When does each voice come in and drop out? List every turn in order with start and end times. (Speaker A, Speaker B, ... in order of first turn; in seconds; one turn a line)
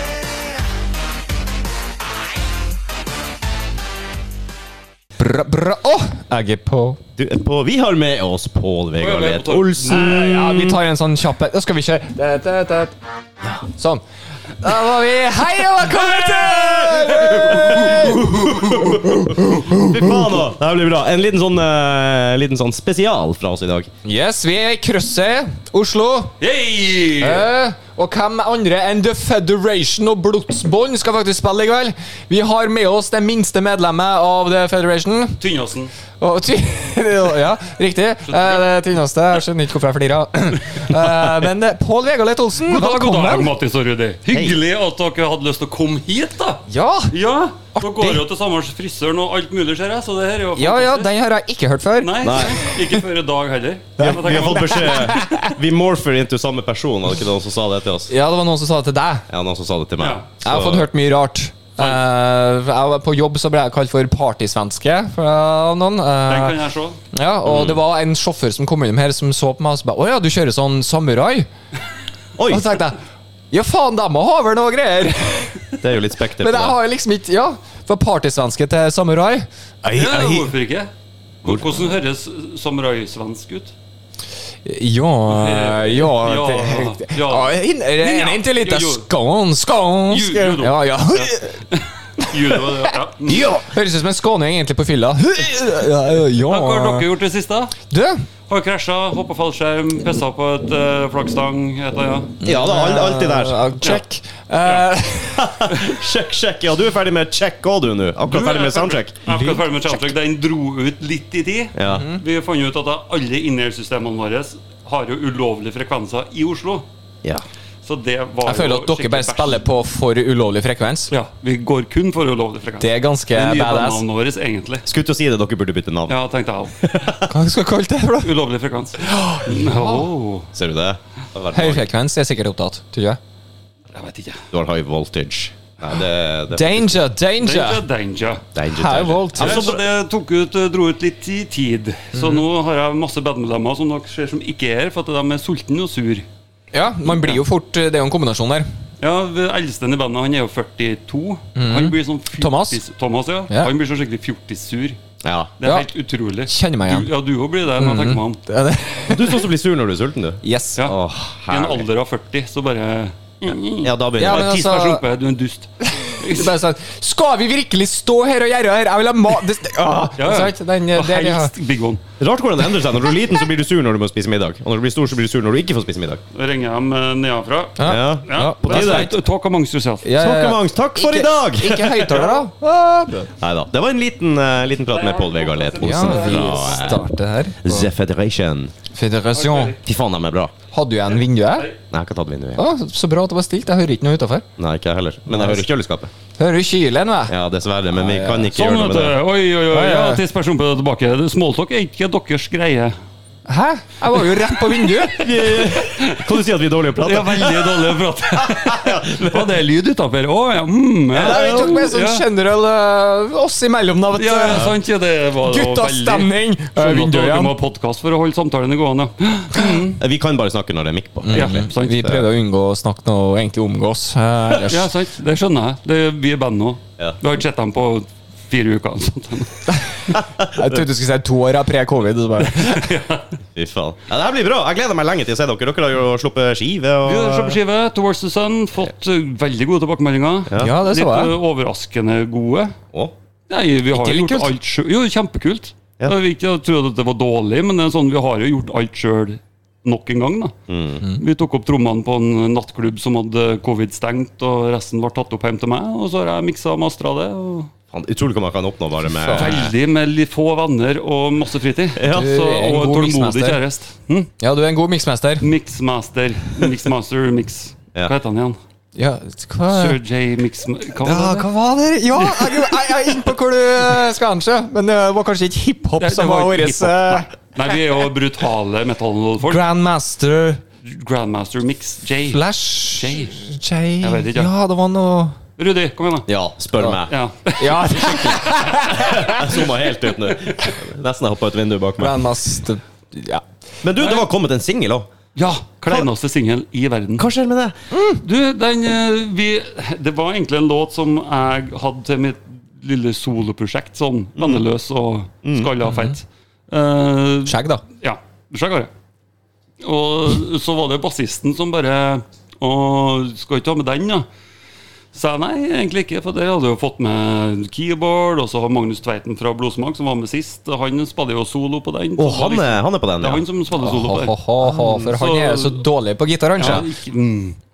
Speaker A: 5.2-7.0
Speaker B: 7.2-10.8
Speaker C: 9.0-10.2
Speaker A: 9.9-12.9
Speaker A: 13.6-14.0
Speaker A: 14.6-20.2
Speaker B: 16.5-17.2
Speaker C: 17.2-18.9
Speaker B: 18.8-23.9
Speaker A: 24.0-26.4
Speaker C: 26.4-27.5
Speaker A: 27.2-35.4
Speaker C: 35.4-35.9
Speaker A: 36.2-43.5
Speaker C: 38.3-38.6
Speaker C: 42.6-51.1
Speaker B: 44.3-44.6
Speaker A: 46.7-47.1
Speaker A: 47.7-48.2
Speaker A: 50.5-52.5
Speaker C: 52.0-55.2
Speaker B: 52.2-52.7
Speaker A: 54.0-55.5
Speaker B: 54.0-58.1
Speaker A: 58.1-59.2
Speaker B: 59.3-60.9
Speaker C: 60.0-60.3
Speaker A: 60.5-66.6
Speaker C: 66.2-67.0
Speaker A: 67.1-71.5
Speaker B: 67.4-67.8
Speaker B: 72.4-72.7
Speaker A: 72.5-73.0
Speaker A: 73.5-75.5
Speaker B: 75.8-76.8
Speaker A: 76.4-80.5
Speaker C: 79.9-80.9
Speaker C: 81.4-83.7
Speaker A: 84.6-91.6
Speaker C: 85.3-89.1
Speaker C: 90.1-93.5
Speaker A: 93.2-97.1
Speaker C: 96.4-97.8
Speaker A: 97.9-98.2
Speaker C: 98.5-102.4
Speaker B: 102.4-103.6
Speaker A: 102.4-105.5
Speaker B: 105.3-109.2
Speaker C: 108.3-116.8
Speaker A: 109.2-109.7
Speaker B: 111.8-112.1
Speaker A: 111.9-112.2
Speaker C: 117.8-119.7
Speaker A: 118.4-121.1
Speaker C: 121.1-124.8
Speaker A: 122.8-124.0
Speaker B: 124.8-126.2
Speaker C: 126.1-126.8
Speaker B: 126.8-127.3
Speaker A: 127.3-128.3
Speaker C: 128.2-130.5
Speaker A: 129.0-130.1
Speaker B: 130.5-131.9
Speaker A: 131.5-133.2
Speaker C: 133.9-134.4
Speaker B: 134.5-137.0
Speaker A: 136.5-137.8
Speaker C: 137.4-138.4
Speaker B: 138.5-139.8
Speaker A: 138.7-139.6
Speaker C: 139.3-146.3
Speaker A: 142.1-142.4
Speaker A: 146.7-148.7
Speaker C: 149.0-155.0
Speaker A: 151.6-152.8
Speaker B: 155.2-155.5
Speaker C: 155.6-158.4
Speaker A: 155.6-155.9
Speaker A: 156.4-157.1
Speaker A: 157.8-159.5
Speaker B: 159.1-161.8
Speaker A: 160.4-160.8
Speaker C: 161.5-166.5
Speaker B: 163.8-164.5
Speaker A: 164.2-165.0
Speaker A: 166.1-171.5
Speaker C: 170.2-172.0
Speaker B: 172.2-176.2
Speaker C: 176.3-180.1
Speaker A: 177.8-179.1
Speaker B: 177.9-179.1
Speaker A: 180.0-183.3
Speaker B: 180.2-182.2
Speaker B: 183.4-187.0
Speaker C: 184.9-187.1
Speaker A: 185.8-187.9
Speaker B: 187.6-188.7
Speaker A: 188.9-189.7
Speaker C: 189.3-189.8
Speaker B: 189.8-190.5
Speaker A: 190.7-191.7
Speaker B: 191.9-192.6
Speaker A: 192.6-194.4
Speaker B: 194.6-196.1
Speaker A: 195.3-195.7
Speaker A: 196.4-197.3
Speaker B: 197.3-199.2
Speaker A: 197.9-198.5
Speaker C: 198.5-202.9
Speaker A: 199.7-200.2
Speaker A: 203.5-205.3
Speaker C: 204.2-204.9
Speaker B: 205.1-209.6
Speaker C: 205.4-206.2
Speaker C: 207.0-212.2
Speaker A: 211.1-214.7
Speaker B: 211.1-211.9
Speaker C: 214.2-220.0
Speaker A: 215.4-217.6
Speaker B: 220.0-222.2
Speaker A: 221.2-224.9
Speaker C: 221.3-222.0
Speaker C: 224.7-229.7
Speaker B: 230.1-230.7
Speaker A: 230.5-232.9
Speaker C: 232.4-233.4
Speaker B: 233.6-237.6
Speaker C: 237.0-242.7
Speaker B: 240.5-240.7
Speaker A: 240.6-241.3
Speaker C: 243.5-250.5
Speaker A: 243.9-244.5
Speaker B: 250.7-251.0
Speaker C: 251.1-257.7
Speaker B: 257.9-259.7
Speaker A: 259.1-259.6
Speaker C: 259.4-264.3
Speaker B: 262.0-262.3
Speaker A: 262.1-263.6
Speaker A: 264.4-265.5
Speaker C: 265.4-268.6
Speaker A: 269.0-270.0
Speaker C: 269.7-271.5
Speaker A: 271.0-277.7
Speaker C: 272.2-272.7
Speaker C: 276.0-279.6
Speaker A: 279.4-280.6
Speaker C: 280.8-283.4
Speaker A: 282.2-285.4
Speaker C: 284.0-284.5
Speaker C: 285.6-286.3
Speaker B: 286.3-287.1
Speaker C: 287.1-289.3
Speaker A: 287.6-289.4
Speaker B: 288.9-292.2
Speaker A: 292.0-293.4
Speaker B: 293.8-295.1
Speaker C: 295.4-297.2
Speaker B: 297.2-297.8
Speaker A: 297.9-298.2
Speaker C: 298.2-308.9
Speaker B: 304.4-304.6
Speaker B: 305.4-305.7
Speaker A: 305.9-306.1
Speaker A: 307.5-307.8
Speaker C: 309.8-314.3
Speaker C: 315.1-325.8
Speaker B: 322.2-323.4
Speaker A: 323.8-326.9
Speaker C: 326.6-327.6